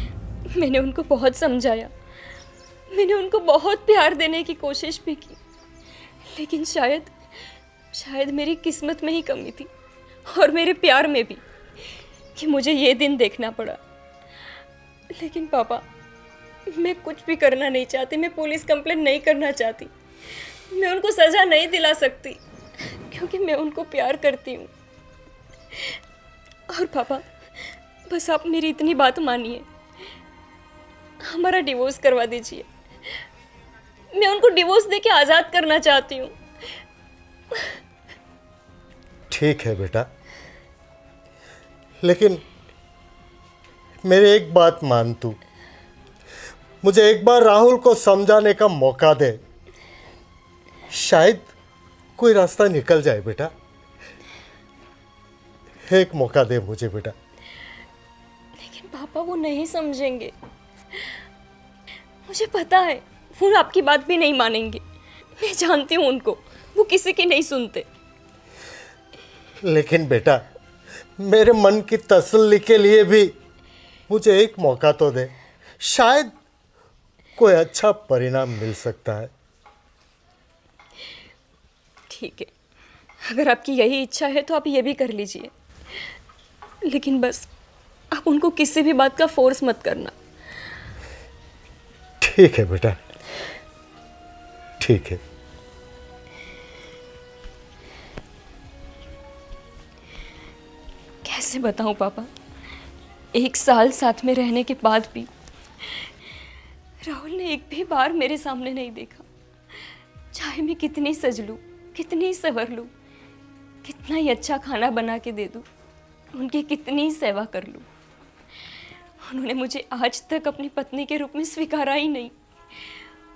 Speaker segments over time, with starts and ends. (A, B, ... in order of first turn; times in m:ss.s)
0:00.5-0:01.9 A
0:02.9-0:05.4 A
0:06.3-0:07.1 A
0:07.9-0:09.7 A
0:10.2-0:13.8 A
0:15.1-0:15.8 A
0:16.7-0:24.7 A
0:26.7-0:27.2 A
0:28.1-0:29.6 A
0:31.2-0:32.7 A
0:34.1-0:36.4 A
0:37.5-0:37.8 A
0:39.3-0:40.1 B
0:42.0-0:42.4 B
0:44.0-0:45.4 B
0:46.8-0:49.4 B
0:50.9-0:51.5 B
0:52.2-0:53.5 B
0:55.9-0:57.1 B
0:58.6-1:00.3 A
1:02.2-1:04.8 A
1:05.4-1:07.9 A
1:09.6-1:10.4 B
1:11.2-1:13.3 B
1:14.1-1:16.3 B
1:17.4-1:19.3 B
1:22.1-1:22.5 A
1:23.2-1:25.5 A
1:26.8-1:27.5 A
1:28.1-1:30.1 A
1:32.2-1:33.0 B
1:34.8-1:35.2 B
1:41.2-1:42.3 A
1:43.3-1:45.3 A
1:45.8-1:46.1 A
1:47.0-1:52.9 A
1:53.8-1:55.7 A
1:56.3-1:57.9 A
1:59.2-2:03.0 A